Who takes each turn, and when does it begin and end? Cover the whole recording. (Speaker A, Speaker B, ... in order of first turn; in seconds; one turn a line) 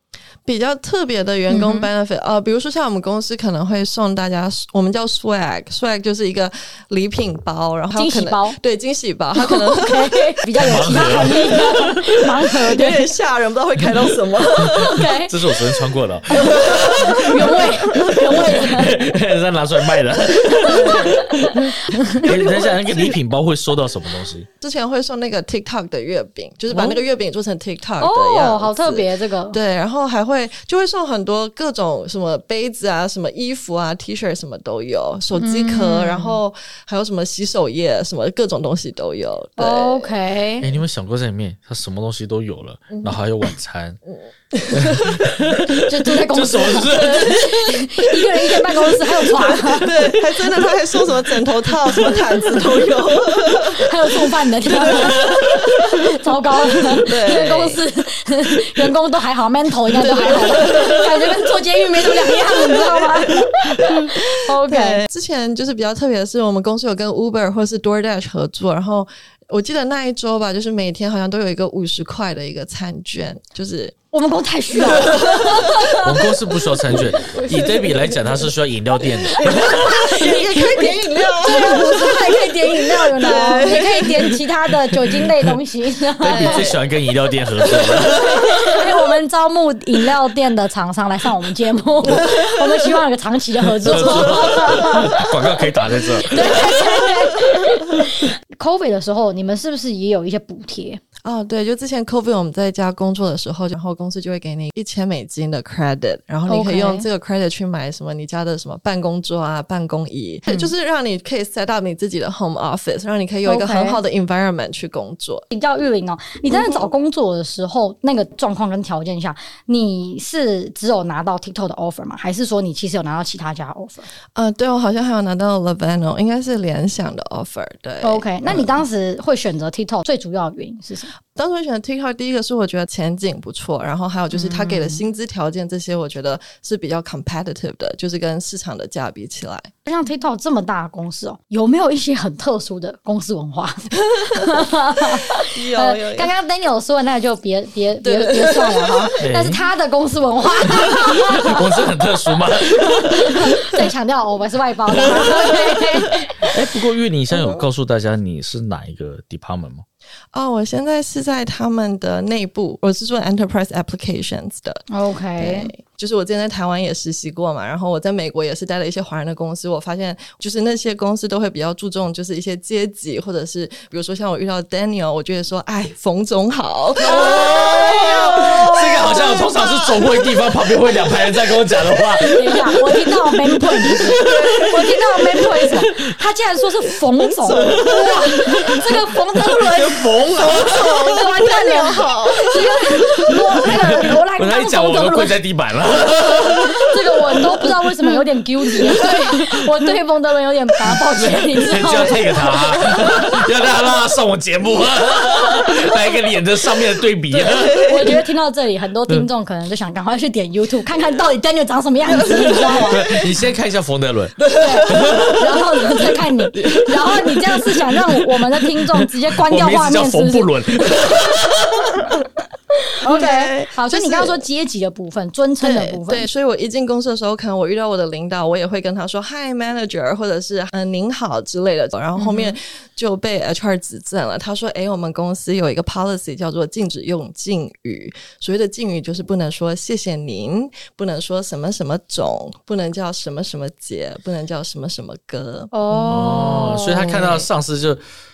Speaker A: 0.5-10.4
Speaker B: 1.5-1.9
Speaker B: 8.0-8.6
Speaker B: 9.3-13.1
Speaker C: 10.6-12.0
Speaker A: 12.7-15.1
Speaker C: 14.7-24.5
Speaker B: 14.8-15.4
Speaker B: 16.3-19.0
Speaker A: 16.4-18.2
Speaker B: 20.6-22.3
Speaker A: 20.6-21.3
Speaker A: 22.2-23.1
Speaker A: 24.6-40.2
Speaker B: 28.0-29.6
Speaker B: 35.4-36.4
Speaker B: 39.6-40.8
Speaker C: 40.6-44.0
Speaker A: 44.5-45.4
Speaker C: 44.7-47.8
Speaker B: 45.9-50.1
Speaker A: 47.0-47.2
Speaker A: 48.8-54.0
Speaker B: 53.7-65.0
Speaker A: 54.7-55.8
Speaker C: 55.3-55.6
Speaker A: 57.0-57.8
Speaker A: 59.9-74.0
Speaker B: 74.1-76.3
Speaker A: 74.8-75.9
Speaker C: 76.0-79.8
Speaker B: 77.4-77.7
Speaker A: 77.5-78.4
Speaker B: 79.4-86.7
Speaker A: 79.4-84.4
Speaker A: 86.2-86.8
Speaker C: 86.2-88.5
Speaker A: 87.7-88.1
Speaker B: 88.1-95.3
Speaker A: 92.1-92.7
Speaker C: 93.8-96.8
Speaker A: 93.9-94.6
Speaker B: 96.2-101.0
Speaker A: 101.2-115.5
Speaker B: 106.5-107.1
Speaker B: 110.5-110.7
Speaker B: 113.5-114.0
Speaker B: 115.5-124.1
Speaker A: 116.5-116.9
Speaker A: 124.3-128.7
Speaker B: 128.0-131.1
Speaker A: 131.3-139.7
Speaker B: 134.3-135.0
Speaker B: 139.8-151.8
Speaker A: 144.1-144.6
Speaker A: 145.1-146.3
Speaker A: 148.0-149.2
Speaker C: 149.2-149.6
Speaker C: 150.8-153.5
Speaker B: 152.6-156.5
Speaker C: 156.4-159.8
Speaker A: 157.3-157.6
Speaker A: 160.3-164.8
Speaker B: 164.9-165.7
Speaker A: 165.4-179.1
Speaker B: 177.0-179.6
Speaker C: 177.0-182.4
Speaker B: 182.2-195.4
Speaker C: 183.9-184.8
Speaker A: 184.2-184.7
Speaker C: 185.3-186.1
Speaker A: 187.4-188.3
Speaker C: 187.5-191.1
Speaker A: 190.3-193.1
Speaker C: 193.7-197.4
Speaker B: 196.6-202.5
Speaker C: 200.9-207.9
Speaker A: 202.5-203.0
Speaker A: 207.3-208.2
Speaker B: 207.8-213.2
Speaker A: 212.2-213.2
Speaker C: 212.9-215.9
Speaker A: 214.4-215.4
Speaker B: 214.6-220.5
Speaker A: 216.6-217.6
Speaker C: 218.9-222.1
Speaker B: 223.0-226.3
Speaker A: 223.0-224.4
Speaker A: 225.6-245.7
Speaker B: 232.2-232.6
Speaker B: 245.7-247.4
Speaker C: 245.9-248.0
Speaker A: 247.0-247.3